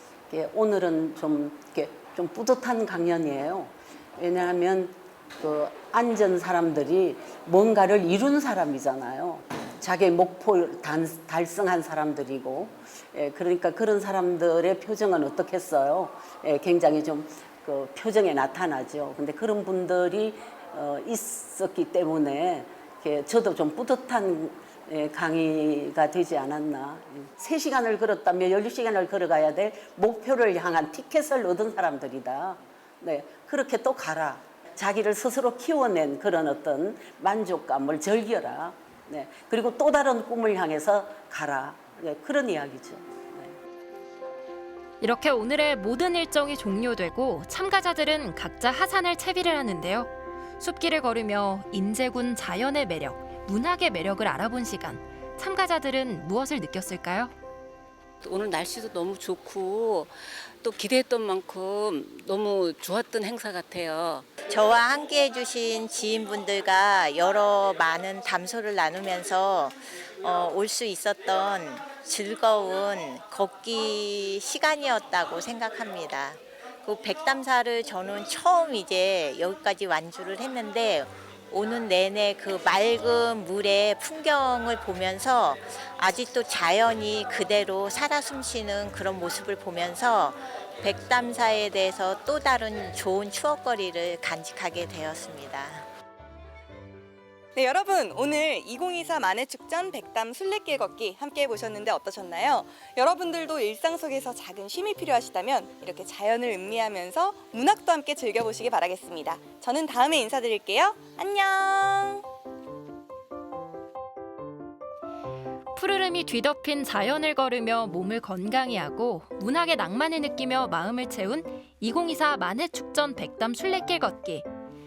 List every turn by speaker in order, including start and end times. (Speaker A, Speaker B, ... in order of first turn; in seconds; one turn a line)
Speaker A: 0.3-43.5
Speaker B: 45.0-57.3
Speaker C: 58.2-64.3
Speaker D: 64.5-95.8
Speaker E: 97.6-112.2
Speaker B: 115.7-124.5